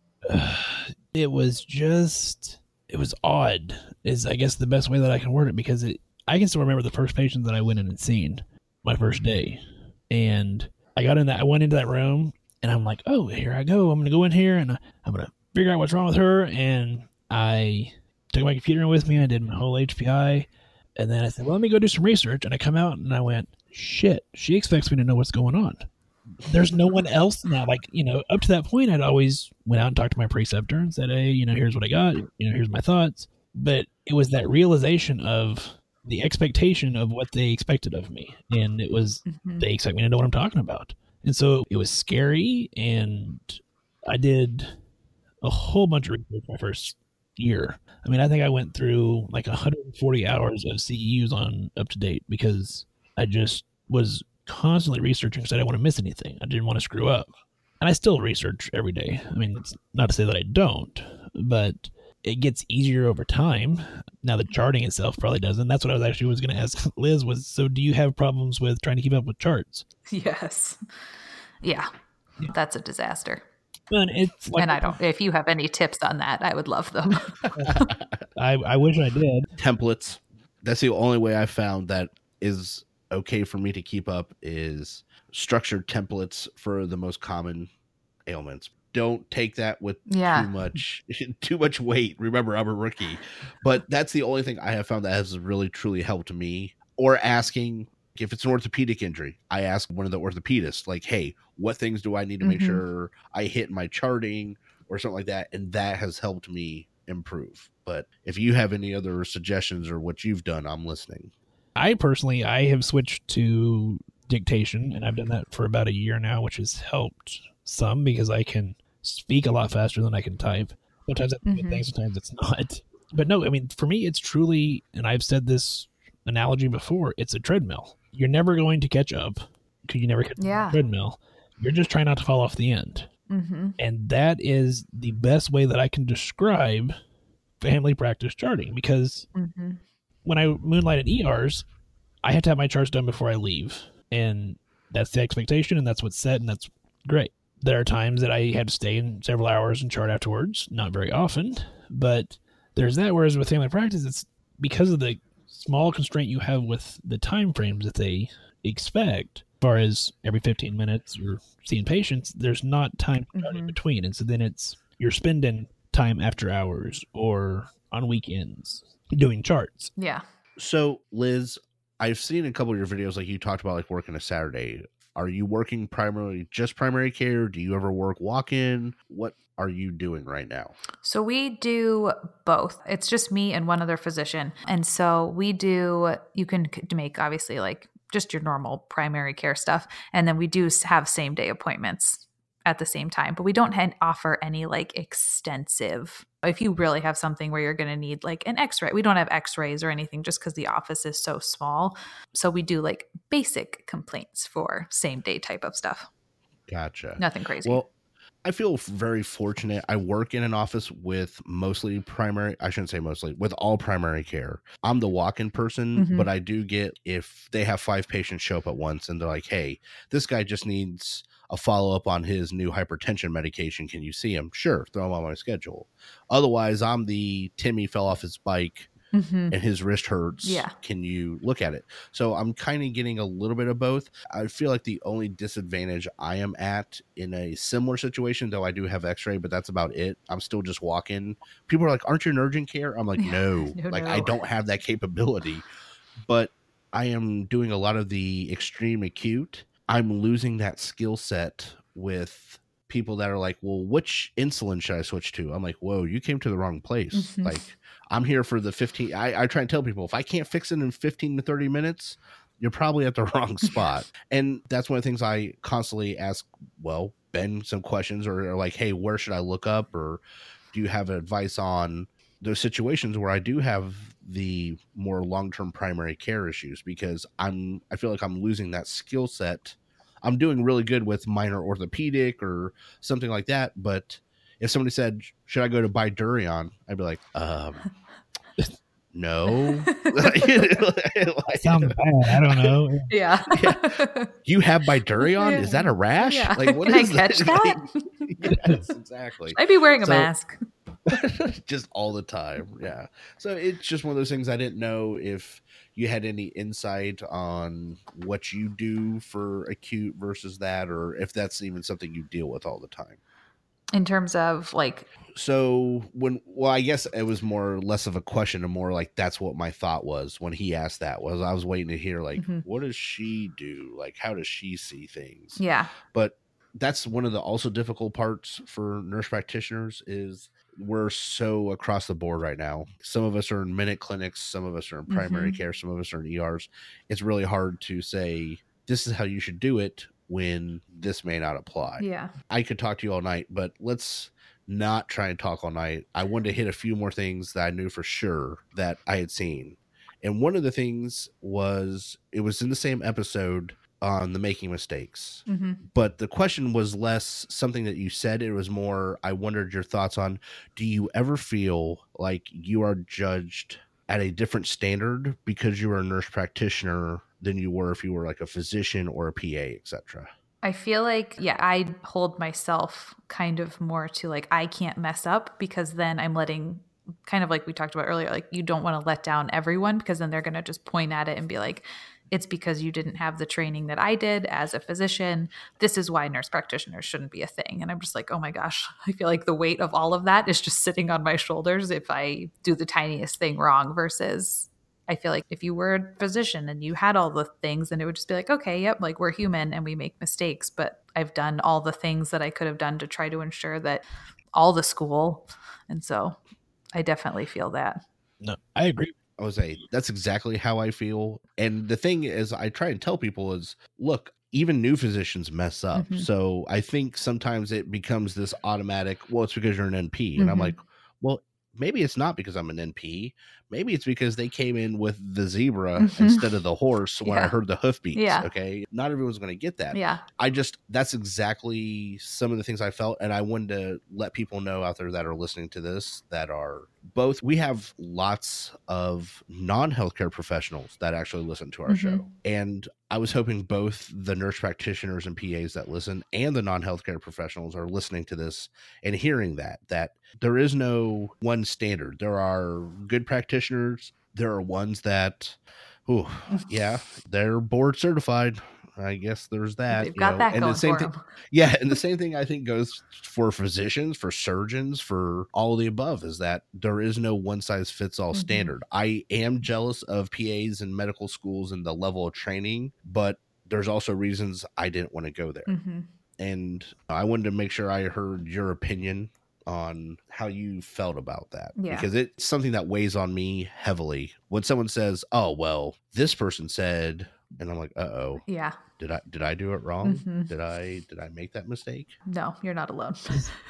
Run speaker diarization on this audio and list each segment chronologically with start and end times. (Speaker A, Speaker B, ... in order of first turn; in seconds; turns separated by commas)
Speaker A: 0.3-25.9, Speaker A: 26.5-44.8, Speaker B: 39.3-39.6, Speaker A: 45.4-69.8, Speaker B: 70.1-70.8, Speaker B: 71.6-71.9, Speaker B: 72.5-73.4, Speaker A: 73.9-74.8, Speaker B: 74.6-77.9, Speaker C: 77.7-78.2, Speaker A: 78.4-79.5, Speaker C: 79.6-87.7, Speaker C: 88.3-111.3, Speaker B: 90.1-90.5, Speaker B: 102.4-102.8, Speaker A: 111.8-133.1, Speaker B: 121.5-121.8, Speaker B: 130.4-130.8, Speaker B: 133.3-133.8, Speaker A: 133.8-137.0, Speaker A: 137.6-139.3, Speaker B: 139.3-139.8, Speaker A: 140.2-141.7, Speaker A: 142.2-169.9, Speaker B: 163.3-163.8, Speaker B: 170.0-170.2, Speaker C: 170.6-180.8, Speaker B: 181.0-206.1, Speaker C: 206.7-207.9, Speaker B: 207.2-207.8, Speaker C: 208.4-228.9, Speaker B: 216.0-216.3, Speaker B: 229.1-229.6, Speaker C: 229.5-245.7, Speaker B: 230.4-230.7, Speaker B: 243.2-244.4, Speaker C: 246.2-270.2, Speaker B: 257.1-257.6, Speaker C: 270.7-287.9, Speaker C: 289.1-292.0, Speaker B: 289.5-290.8, Speaker A: 291.5-293.1, Speaker B: 293.1-294.3, Speaker C: 293.5-300.3, Speaker B: 295.2-298.0, Speaker A: 298.5-298.8, Speaker B: 299.6-300.6, Speaker C: 301.1-313.2, Speaker B: 313.9-315.1, Speaker C: 315.3-370.3, Speaker B: 322.4-322.6, Speaker B: 325.6-325.9, Speaker B: 335.1-335.6, Speaker B: 342.0-342.3, Speaker B: 355.5-355.8, Speaker B: 370.6-406.4, Speaker B: 406.9-408.0, Speaker A: 408.4-409.1, Speaker C: 409.4-475.7, Speaker B: 415.9-416.3, Speaker B: 420.4-420.8, Speaker B: 426.0-426.4, Speaker B: 427.2-427.5, Speaker B: 428.1-428.5, Speaker B: 429.9-430.2, Speaker B: 441.9-442.3, Speaker B: 459.9-461.2, Speaker B: 468.3-468.7, Speaker B: 475.7-476.1, Speaker C: 476.4-488.4, Speaker B: 481.8-482.1, Speaker B: 488.5-488.8, Speaker C: 489.0-492.2, Speaker B: 490.0-490.5, Speaker B: 492.3-493.6